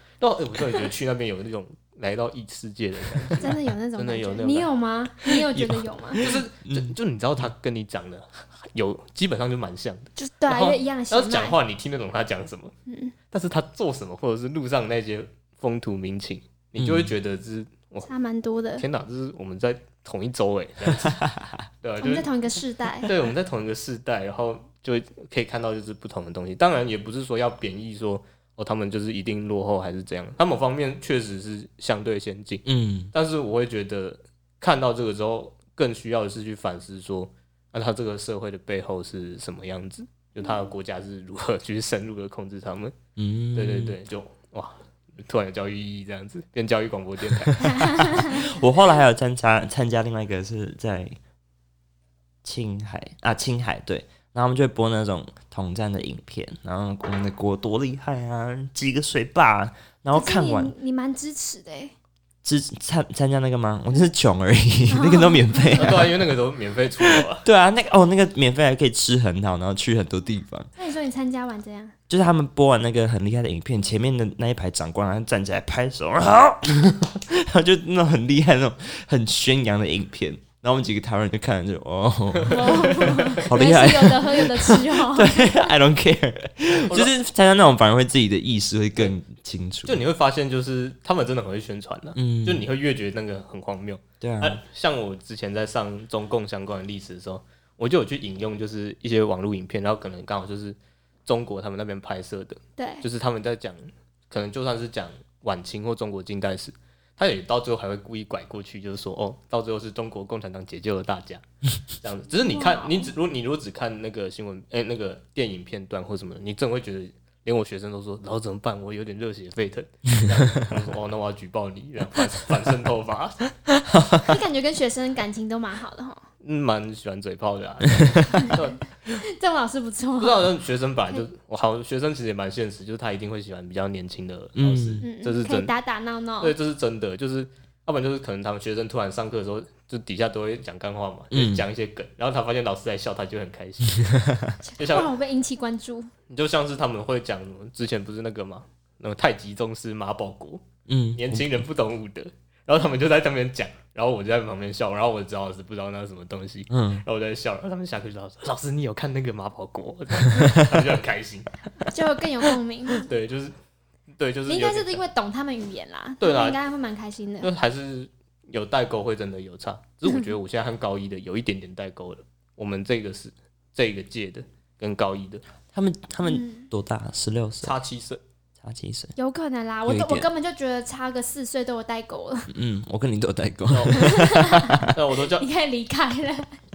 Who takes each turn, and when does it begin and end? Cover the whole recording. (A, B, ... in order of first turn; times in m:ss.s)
0:00.2-0:04.7 A
0:03.4-0:06.3 B
0:05.5-0:06.9 C
0:06.2-0:12.7 A
0:10.2-0:11.6 B
0:12.9-0:13.1 B
0:13.3-0:18.1 A
0:16.8-0:17.1 C
0:18.1-0:18.8 B
0:18.8-0:21.2 A
0:21.2-0:21.5 C
0:21.8-0:22.3 A
0:22.0-0:23.1 B
0:23.0-0:42.9 A
0:32.6-0:33.1 C
0:43.2-0:44.0 C
0:43.5-0:48.1 A
0:47.5-0:51.2 C
0:47.6-0:48.4 B
0:52.4-1:00.7 C
1:00.1-1:01.9 B
1:02.4-1:06.1 C
1:04.9-1:06.0 B
1:05.8-1:07.4 A
1:07.4-1:10.7 C
1:10.8-1:11.9 B
1:12.1-1:30.0 C
1:22.4-1:23.4 A
1:22.5-1:25.7 B
1:29.8-1:51.4 A
1:32.2-1:32.6 C
1:34.2-1:34.6 C
1:42.8-1:43.0 B
1:52.0-2:03.6 A
1:52.4-1:53.1 B
2:03.8-2:04.2 C
2:04.2-2:06.2 B
2:06.4-2:08.8 A
2:07.9-2:08.5 C
2:08.4-2:08.6 B
2:09.2-2:10.5 B
2:10.2-2:15.7 A
2:14.6-2:15.0 C
2:15.0-2:16.5 B
2:16.4-2:24.1 A
2:21.3-2:21.6 C
2:24.0-2:24.5 C
2:24.7-2:26.1 B
2:24.8-2:25.1 A
2:26.3-2:41.5 A
2:30.9-2:31.6 C
2:36.7-2:37.0 C
2:40.3-2:40.6 C
2:41.8-2:43.1 B
2:43.0-2:43.5 A
2:44.2-2:45.0 A
2:44.5-2:47.5 B
2:46.2-2:46.6 A
2:47.4-2:55.4 A
2:50.1-2:50.3 B
2:55.7-2:57.8 C
2:56.2-2:56.7 B
2:57.6-2:58.2 A
2:58.6-2:59.1 C
2:59.2-3:02.5 B
2:59.9-3:00.3 C
3:02.5-3:04.9 C
3:03.7-3:04.1 A
3:03.9-3:06.5 B
3:04.8-3:05.4 A